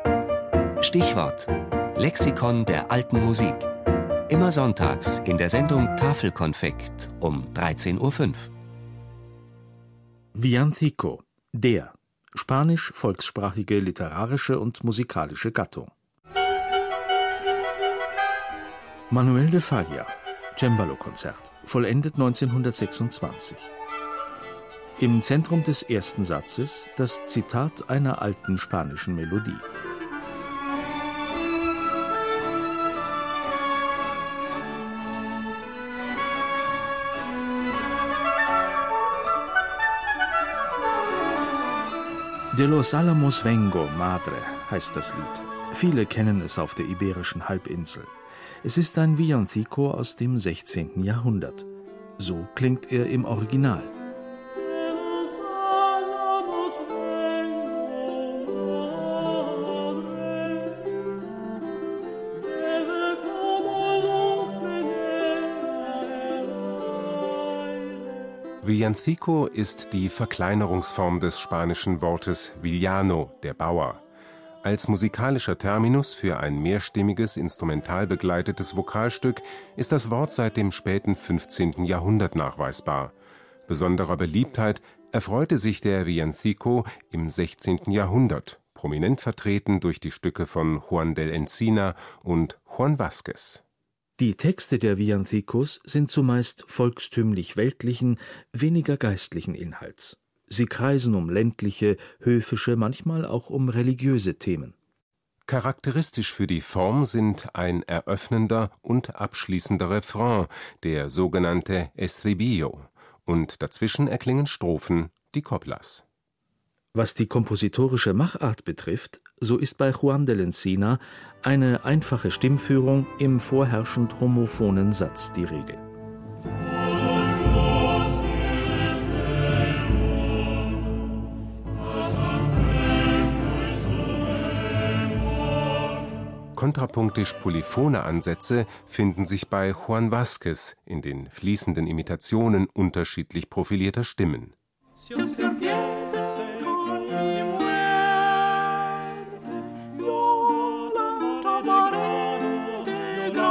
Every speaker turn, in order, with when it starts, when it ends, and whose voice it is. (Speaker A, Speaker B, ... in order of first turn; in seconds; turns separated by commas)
Speaker A: 0.8-3.6, Speaker A: 4.3-8.5, Speaker B: 10.3-15.9, Speaker B: 19.1-23.7, Speaker B: 25.0-29.7, Speaker B: 42.5-53.9, Speaker C: 68.6-74.0, Speaker C: 74.6-83.1, Speaker C: 83.7-93.6, Speaker B: 94.2-104.8, Speaker C: 105.5-116.0, Speaker B: 116.9-125.8, Speaker C: 136.6-144.6